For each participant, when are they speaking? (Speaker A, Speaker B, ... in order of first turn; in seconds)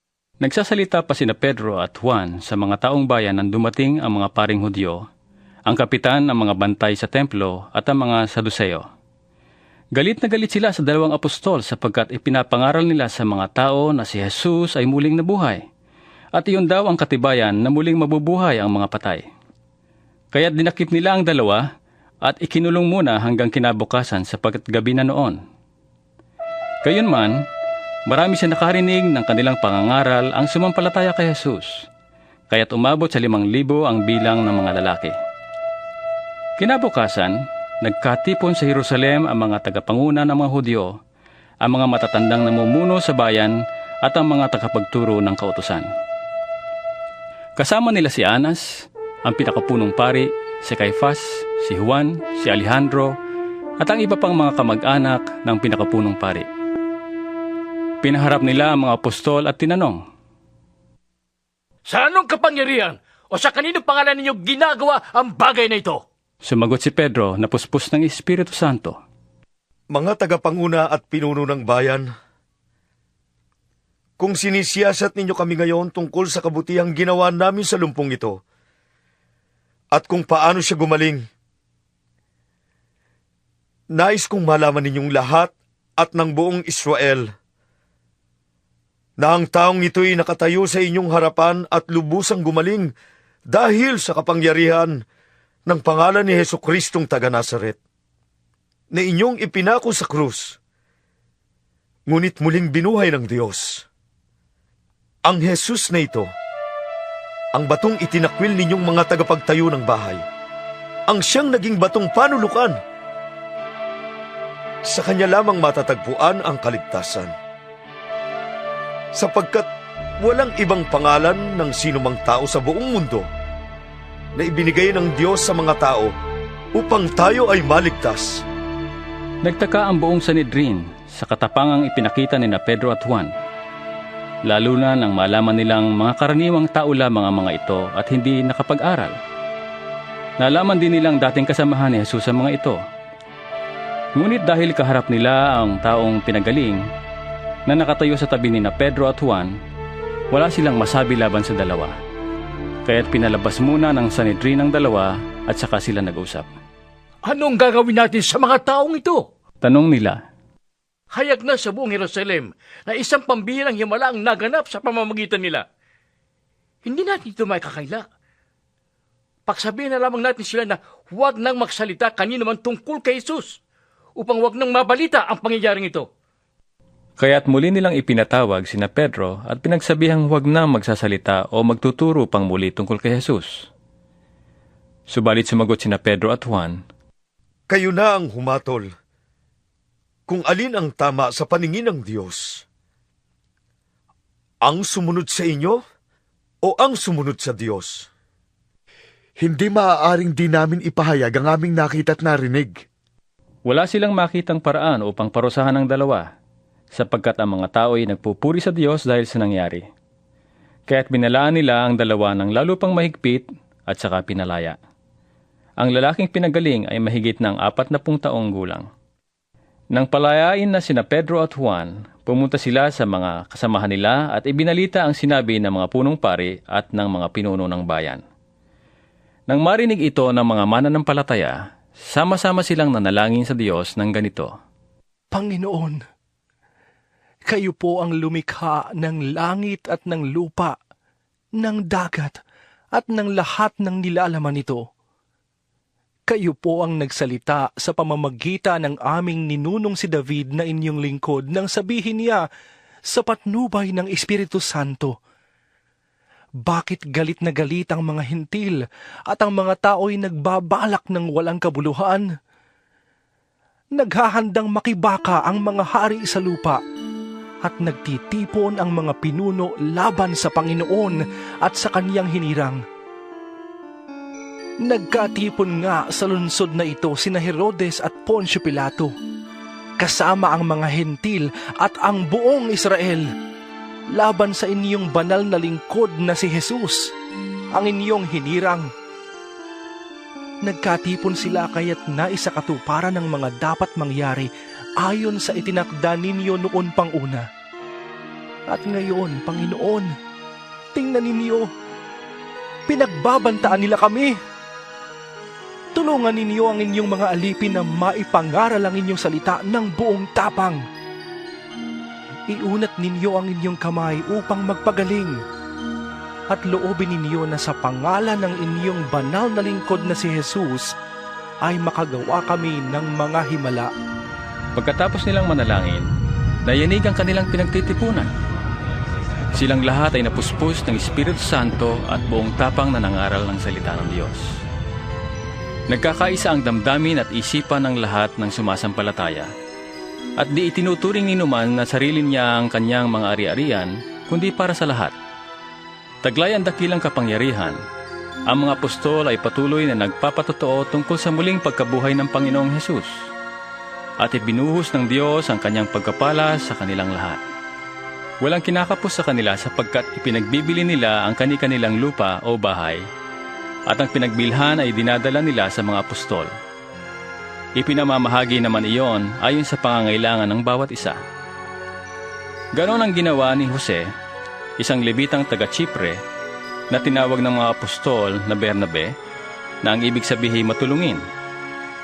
Speaker A: 0.4-5.0, 5.7-8.8, 9.9-15.6, 16.3-19.2, 20.3-21.6, 22.2-25.4, 26.8-27.4, 28.1-31.7, 32.5-35.1, 36.6-40.9, 41.6-45.9, 47.6-53.1, 53.8-56.5, 58.0-60.0, 66.4-69.0, 129.4-133.3, 134.5-139.2, 140.4-142.8, 144.2-146.8, 147.7-149.5, 150.3-151.9, 152.8-156.5, 159.6-160.2, 177.2-183.7, 185.1-186.8, 203.7-206.3, 206.9-209.8, 210.9-214.8, 215.8-218.9, 219.9-228.2, 229.5-231.6, 232.1-234.5, 324.7-326.1, 326.6-328.3, 329.5-334.6, 335.9-339.5, 340.4-345.1, 346.2-347.8, 348.5-353.3, 354.2-357.4, 358.4-363.0, 363.9-366.5, 367.8-371.2, 372.7-374.0, 374.8-376.2, 376.9-379.1, 379.8-381.2
Speaker B: 61.9-66.0, 157.2-159.2, 161.1-165.7, 166.8-168.0, 169.5-173.6, 174.2-176.1
Speaker C: 69.9-72.1, 74.2-78.4, 79.9-81.2, 83.9-87.3, 89.2-92.9, 93.5-95.0, 95.7-97.8, 98.9-100.6, 102.1-103.8, 105.2-106.3, 107.5-110.2, 111.1-112.7, 114.8-117.3, 119.2-119.7, 120.2-123.3, 124.3-126.1, 126.8-128.4, 187.7-188.9, 190.3-192.6, 194.6-195.8, 196.6-198.1
Speaker D: 199.4-202.7
Speaker E: 235.3-236.0, 237.5-240.8, 241.6-242.4, 242.9-244.9, 246.3-252.4, 253.1-255.1, 256.7-262.2, 263.9-266.8, 267.6-272.8, 274.8-279.1, 280.0-283.3, 284.1-287.1, 287.7-288.9, 290.6-294.5, 295.0-297.4, 298.7-300.1, 300.9-301.7, 302.9-304.3, 305.9-310.8, 312.5-315.4, 316.5-320.9, 321.6-323.9